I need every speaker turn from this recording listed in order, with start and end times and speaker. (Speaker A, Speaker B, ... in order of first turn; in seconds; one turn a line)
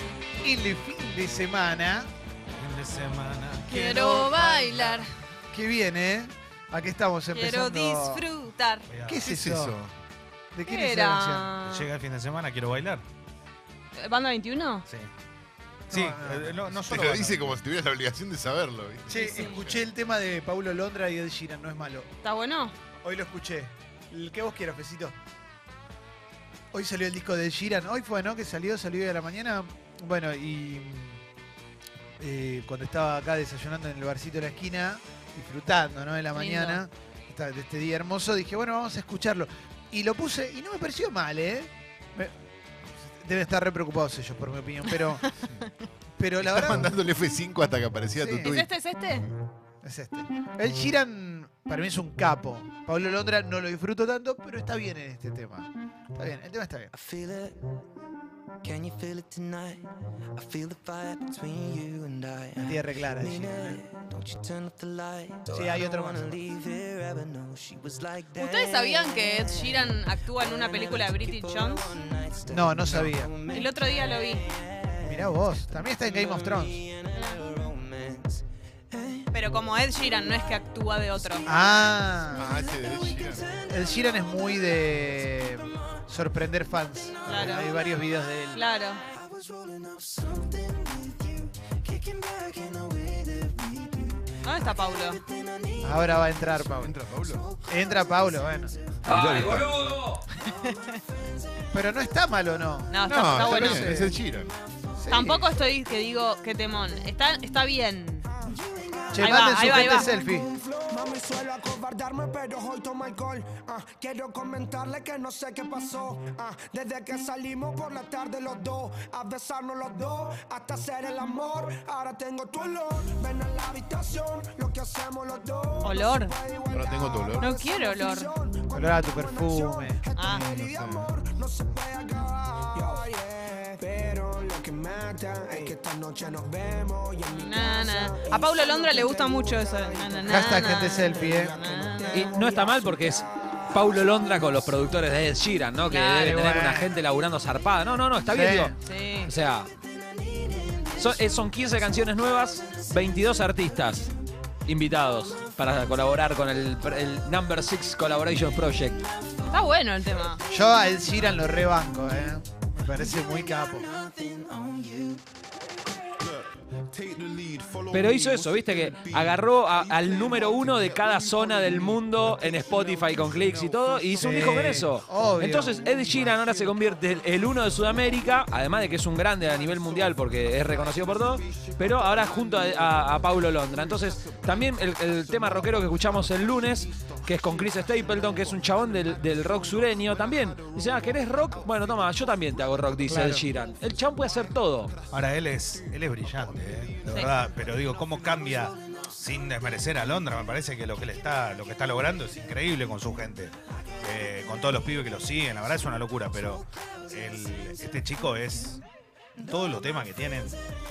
Speaker A: 0.4-2.1
Speaker B: 2.5-3.8
Speaker C: 3.7-5.1
Speaker A: 3.7-8.2
Speaker C: 7.3-8.9
Speaker B: 8.9-9.3
Speaker A: 9.0-9.8
Speaker D: 9.2-9.9
Speaker A: 10.5-11.5
Speaker C: 10.6-11.9
Speaker B: 11.6-13.0
Speaker C: 14.0-14.9
Speaker A: 15.9-16.8
Speaker B: 15.9-17.6
Speaker D: 16.9-19.9
Speaker A: 19.1-22.1
Speaker C: 19.1-19.6
Speaker C: 22.2-22.8
Speaker A: 23.0-25.1
Speaker A: 26.7-31.2
Speaker A: 32.2-42.3
Speaker C: 36.3-36.8
Speaker A: 43.1-45.3
Speaker A: 46.2-47.0
Speaker D: 46.4-48.7
Speaker A: 48.2-48.5
Speaker C: 48.5-49.3
Speaker A: 49.8-56.9
Speaker E: 57.0-57.5
Speaker E: 58.6-59.8
Speaker E: 60.4-69.9
Speaker A: 62.6-63.8
Speaker A: 65.5-66.5
Speaker C: 68.3-72.0
Speaker E: 70.8-73.7
Speaker A: 72.5-73.4
Speaker C: 73.5-74.5
Speaker A: 75.0-77.0
Speaker E: 76.2-76.5
Speaker C: 77.1-77.4
Speaker F: 77.3-77.6
Speaker E: 77.6-78.4
Speaker C: 79.3-81.5
Speaker A: 81.5-82.6
Speaker D: 82.3-83.5
Speaker A: 83.6-88.6
Speaker C: 87.2-87.8
Speaker C: 88.5-89.0
Speaker E: 90.0-91.0
Speaker F: 90.1-91.4
Speaker F: 92.6-93.0
Speaker E: 92.8-93.8
Speaker C: 94.4-95.2
Speaker A: 95.8-97.0
Speaker D: 96.7-97.5
Speaker A: 97.7-98.7
Speaker G: 99.0-100.2
Speaker B: 99.1-99.7
Speaker C: 100.4-100.8
Speaker A: 101.7-104.2
Speaker C: 102.9-104.0
Speaker D: 103.1-104.5
Speaker A: 105.0-105.5
Speaker C: 105.1-108.3
Speaker F: 108.4-144.8
Speaker A: 109.1-110.5
Speaker C: 109.2-110.1
Speaker C: 125.8-126.3
Speaker D: 126.7-127.5
Speaker C: 127.4-128.3
Speaker A: 128.7-130.0
Speaker C: 130.2-130.5
Speaker D: 130.3-131.2
Speaker C: 137.3-142.3
Speaker A: 140.2-141.7
Speaker G: 142.1-148.7
Speaker C: 145.8-146.5
Speaker A: 146.2-146.9
Speaker A: 148.2-148.8
Speaker C: 148.8-149.4
Speaker G: 149.2-149.7
Speaker G: 150.6-154.1
Speaker G: 154.7-159.1
Speaker C: 159.5-160.4
Speaker A: 160.5-163.9
Speaker F: 164.2-165.2
Speaker E: 164.4-164.9
Speaker E: 166.9-169.4
Speaker G: 167.9-195.0
Speaker E: 169.9-171.3
Speaker E: 173.4-173.8
Speaker A: 174.1-175.8
Speaker F: 175.8-176.7
Speaker F: 179.6-191.5
Speaker A: 193.1-193.5
Speaker B: 195.1-208.8
Speaker B: 209.4-210.5